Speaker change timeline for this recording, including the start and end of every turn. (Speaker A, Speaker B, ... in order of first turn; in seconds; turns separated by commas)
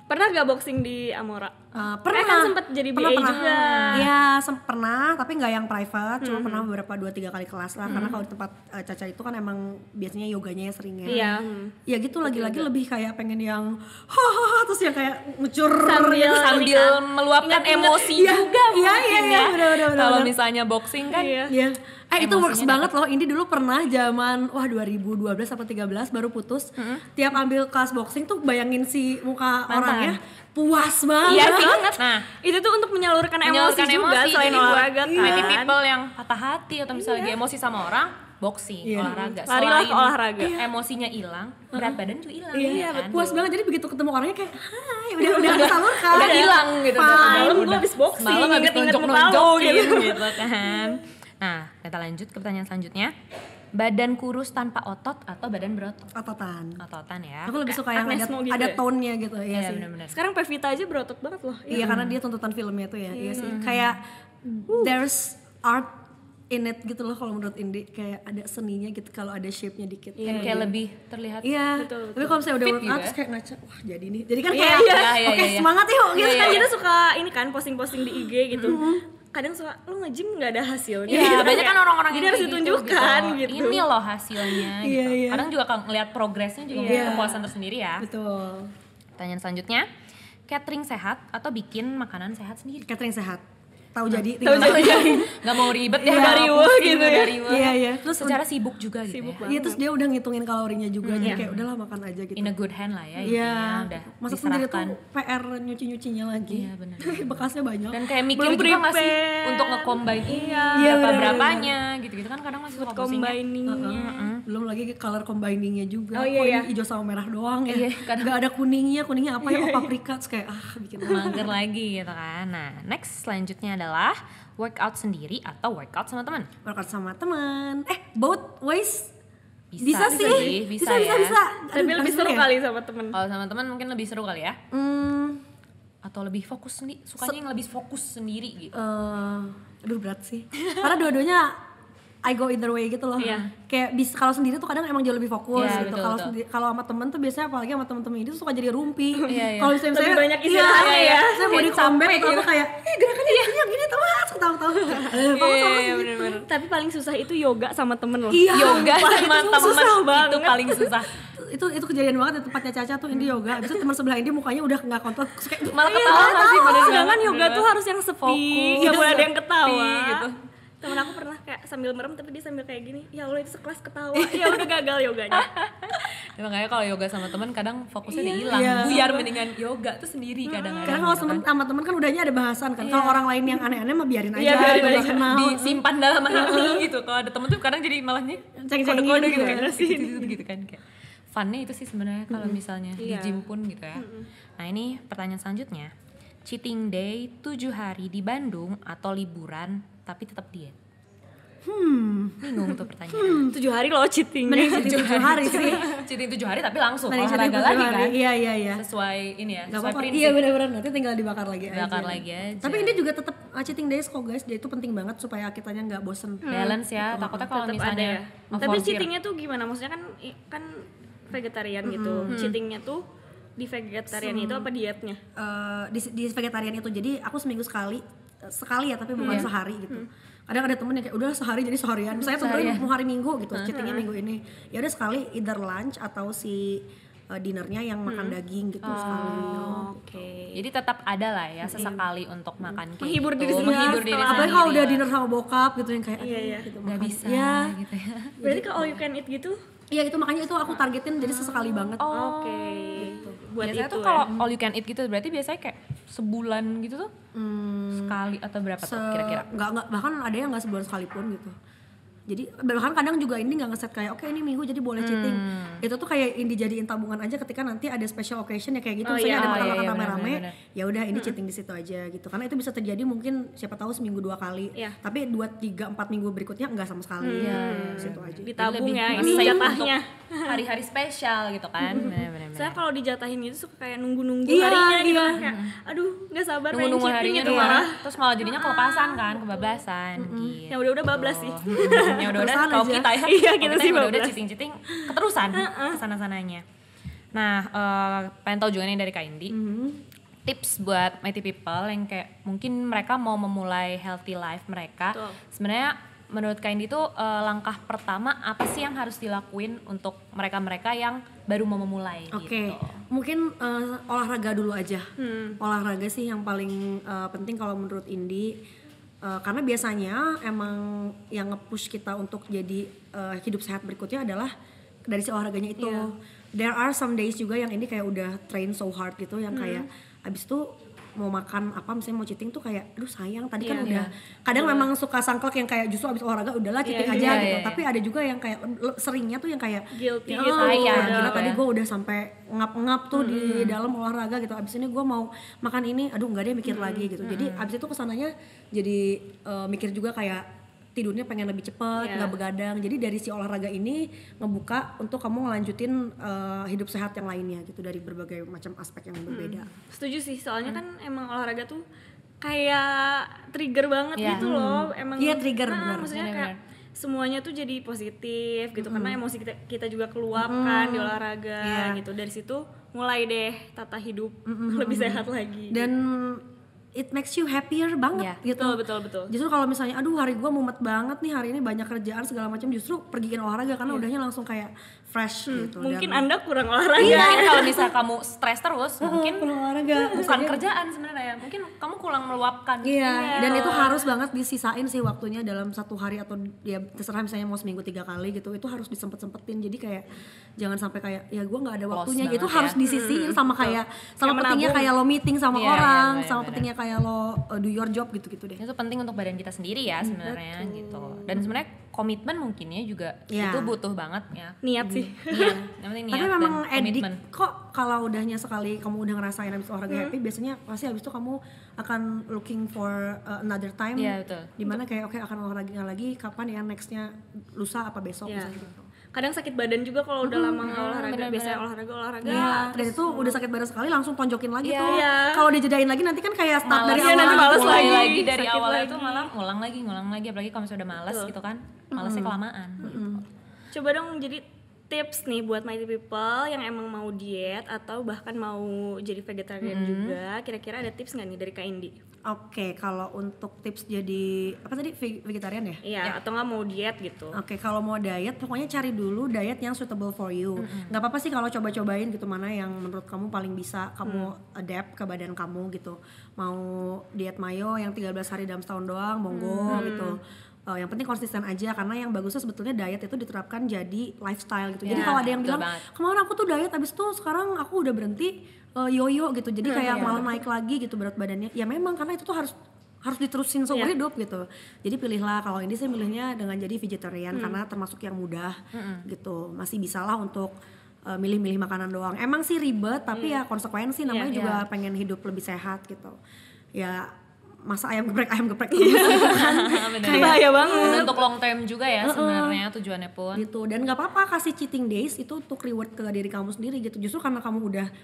Speaker A: 0.1-4.1, Speaker B: 1.7-11.3, Speaker C: 3.3-4.1, Speaker A: 6.2-6.7, Speaker C: 7.9-8.2, Speaker A: 11.1-12.7, Speaker B: 11.9-16.4, Speaker A: 15.8-18.3, Speaker C: 16.1-21.4, Speaker B: 18.1-20.4, Speaker A: 21.1-21.5, Speaker B: 21.5-31.9, Speaker C: 22.2-22.9, Speaker C: 26.8-27.1, Speaker C: 29.7-30.2, Speaker C: 31.2-32.2, Speaker A: 31.3-35.7, Speaker C: 33.4-43.4, Speaker B: 35.1-35.6, Speaker B: 38.8-39.2, Speaker A: 39.0-40.6, Speaker B: 41.7-42.0, Speaker B: 42.5-47.8, Speaker A: 43.1-43.4, Speaker A: 45.2-50.9, Speaker C: 45.4-53.1, Speaker C: 53.8-56.1, Speaker B: 56.1-56.8, Speaker C: 56.8-57.5, Speaker B: 57.5-59.9, Speaker A: 57.6-58.8, Speaker C: 59.5-60.2, Speaker A: 60.1-61.9, Speaker B: 61.7-65.9, Speaker C: 61.8-62.2, Speaker A: 63.1-63.5, Speaker C: 63.4-64.0, Speaker B: 66.5-70.7, Speaker A: 70.2-70.7, Speaker C: 70.3-71.5, Speaker B: 71.4-76.7, Speaker A: 71.8-72.4, Speaker C: 72.6-73.2, Speaker A: 74.5-75.3, Speaker C: 74.7-76.7, Speaker A: 76.2-83.8, Speaker B: 78.5-79.0, Speaker C: 81.1-88.1, Speaker B: 81.1-81.5, Speaker B: 84.7-85.5, Speaker A: 86.7-87.4, Speaker B: 86.8-87.4, Speaker B: 88.0-88.7, Speaker C: 89.2-89.9, Speaker C: 90.5-92.9, Speaker B: 92.8-95.4, Speaker C: 94.1-99.5, Speaker A: 94.4-97.4, Speaker B: 96.0-96.6, Speaker B: 97.4-98.4, Speaker A: 99.1-99.8, Speaker B: 99.5-102.6, Speaker C: 101.0-101.7, Speaker C: 102.4-105.0, Speaker B: 103.2-108.0, Speaker C: 106.5-113.4, Speaker A: 108.3-111.7, Speaker B: 110.8-111.7, Speaker A: 112.8-114.3, Speaker B: 113.7-121.5, Speaker C: 113.9-114.4, Speaker A: 116.1-116.7, Speaker C: 117.7-118.4, Speaker A: 119.4-119.9, Speaker C: 121.0-126.5, Speaker A: 121.1-121.4, Speaker B: 126.6-129.1, Speaker C: 129.7-131.4, Speaker B: 129.8-132.5, Speaker A: 130.0-130.5, Speaker A: 131.7-133.2, Speaker C: 133.1-134.6, Speaker B: 134.7-135.4, Speaker C: 136.0-138.8, Speaker B: 138.7-141.6, Speaker B: 142.2-156.1, Speaker A: 143.2-143.5, Speaker C: 145.6-146.3, Speaker A: 149.2-151.8, Speaker C: 149.3-149.8, Speaker C: 150.7-152.5, Speaker A: 155.0-160.9, Speaker C: 155.1-156.4, Speaker B: 158.3-159.2, Speaker C: 158.5-161.1, Speaker B: 161.4-166.7, Speaker C: 165.7-167.7, Speaker A: 165.8-170.3, Speaker C: 168.2-170.4, Speaker B: 168.8-169.3, Speaker A: 170.8-175.5, Speaker B: 174.1-174.7, Speaker C: 175.3-181.4, Speaker A: 178.2-179.2, Speaker B: 178.4-179.3, Speaker A: 180.5-181.1, Speaker B: 180.8-185.8, Speaker C: 182.8-183.3, Speaker A: 184.4-185.3, Speaker C: 184.5-190.8, Speaker A: 186.3-186.8, Speaker B: 188.6-190.2, Speaker A: 189.1-190.3, Speaker C: 191.3-194.1, Speaker B: 192.3-192.6, Speaker A: 193.0-193.4, Speaker A: 194.0-194.3, Speaker C: 194.6-195.9, Speaker C: 196.5-200.8, Speaker B: 201.7-203.6, Speaker C: 202.4-203.5, Speaker A: 203.5-206.0, Speaker B: 204.5-205.9, Speaker C: 204.7-208.2, Speaker B: 207.1-208.8, Speaker C: 208.8-210.4, Speaker B: 209.7-216.6, Speaker C: 211.7-213.0, Speaker A: 216.4-223.0, Speaker C: 216.5-219.1, Speaker B: 217.1-217.5, Speaker B: 218.5-218.9, Speaker B: 221.8-222.4, Speaker C: 222.3-222.6, Speaker A: 223.6-225.2, Speaker B: 224.1-224.7, Speaker B: 225.4-239.9, Speaker A: 229.2-230.1, Speaker C: 229.2-229.5, Speaker C: 232.3-232.9, Speaker C: 233.5-233.8, Speaker A: 233.7-234.1, Speaker C: 238.1-239.9, Speaker A: 238.9-240.6, Speaker C: 240.5-245.1, Speaker B: 241.7-242.1, Speaker A: 243.0-244.7, Speaker B: 243.5-247.7, Speaker A: 246.2-246.7, Speaker C: 246.8-248.4, Speaker B: 248.4-249.0, Speaker A: 248.4-249.6, Speaker B: 249.9-252.1, Speaker C: 252.0-257.1, Speaker A: 252.1-254.3, Speaker B: 253.0-253.4, Speaker B: 254.2-254.5, Speaker B: 257.3-258.2, Speaker C: 257.9-259.5, Speaker B: 258.8-261.6, Speaker B: 262.3-278.5, Speaker C: 265.0-265.8, Speaker A: 269.1-269.9, Speaker C: 269.4-270.6, Speaker A: 277.2-280.6, Speaker C: 277.4-282.8, Speaker B: 279.1-279.8, Speaker A: 281.8-289.8, Speaker B: 281.9-282.2, Speaker B: 284.5-285.4, Speaker C: 285.4-285.8, Speaker C: 286.7-296.6, Speaker B: 287.4-287.9, Speaker B: 290.2-290.6, Speaker A: 290.7-292.3, Speaker B: 292.0-293.2, Speaker A: 293.2-294.4, Speaker A: 294.9-296.0, Speaker C: 297.3-299.6, Speaker B: 299.5-300.0, Speaker C: 300.4-313.0, Speaker A: 305.1-305.4, Speaker B: 312.3-318.5, Speaker A: 315.2-315.6, Speaker B: 319.2-324.5, Speaker B: 325.1-330.7, Speaker A: 325.8-326.1, Speaker A: 329.5-329.9, Speaker B: 331.2-359.7, Speaker A: 333.6-333.9, Speaker C: 333.8-334.1, Speaker A: 334.6-334.9, Speaker A: 336.8-337.4, Speaker C: 337.1-337.9, Speaker A: 339.9-341.5, Speaker C: 340.6-341.6, Speaker A: 343.2-343.6, Speaker C: 343.4-343.8, Speaker A: 346.7-347.1, Speaker C: 347.2-347.7, Speaker A: 352.0-352.4, Speaker A: 359.3-361.8, Speaker A: 362.4-375.9, Speaker C: 364.2-364.5, Speaker B: 364.3-366.2, Speaker C: 366.1-366.5, Speaker B: 368.8-369.2, Speaker B: 370.4-372.0, Speaker B: 374.5-386.3, Speaker A: 378.5-379.3, Speaker A: 385.5-387.9, Speaker B: 387.0-387.5, Speaker C: 387.0-393.7, Speaker B: 389.0-390.6, Speaker B: 392.8-400.1, Speaker A: 393.1-394.1, Speaker B: 400.6-408.6, Speaker C: 401.9-402.8, Speaker A: 402.8-404.9, Speaker C: 405.5-406.7, Speaker C: 408.6-417.2, Speaker A: 410.2-411.4, Speaker B: 413.3-413.8, Speaker A: 414.6-415.6, Speaker B: 416.1-428.9, Speaker C: 424.0-424.6, Speaker A: 428.3-428.5, Speaker A: 429.1-433.4, Speaker B: 430.2-430.8, Speaker C: 430.6-431.6, Speaker B: 432.2-438.2, Speaker C: 432.3-432.5, Speaker C: 434.6-435.0, Speaker A: 434.9-435.5, Speaker C: 436.7-443.0, Speaker A: 436.9-439.3, Speaker A: 441.1-441.3, Speaker B: 441.9-443.2, Speaker A: 442.8-443.1, Speaker A: 443.7-452.0, Speaker C: 449.6-450.2, Speaker B: 452.3-455.8, Speaker A: 455.8-457.4, Speaker B: 457.3-490.5, Speaker C: 460.6-461.0, Speaker A: 464.1-464.3, Speaker C: 469.4-470.1, Speaker A: 469.7-470.1, Speaker C: 474.9-475.9, Speaker A: 479.6-480.3, Speaker C: 479.9-480.3, Speaker A: 487.3-487.6, Speaker C: 488.7-489.1, Speaker B: 491.1-496.2, Speaker A: 493.1-493.4, Speaker A: 494.1-494.3, Speaker C: 494.3-494.6, Speaker B: 496.8-497.1, Speaker B: 497.6-501.2, Speaker A: 498.7-501.1, Speaker C: 499.0-503.5, Speaker B: 502.0-502.6, Speaker B: 503.3-507.9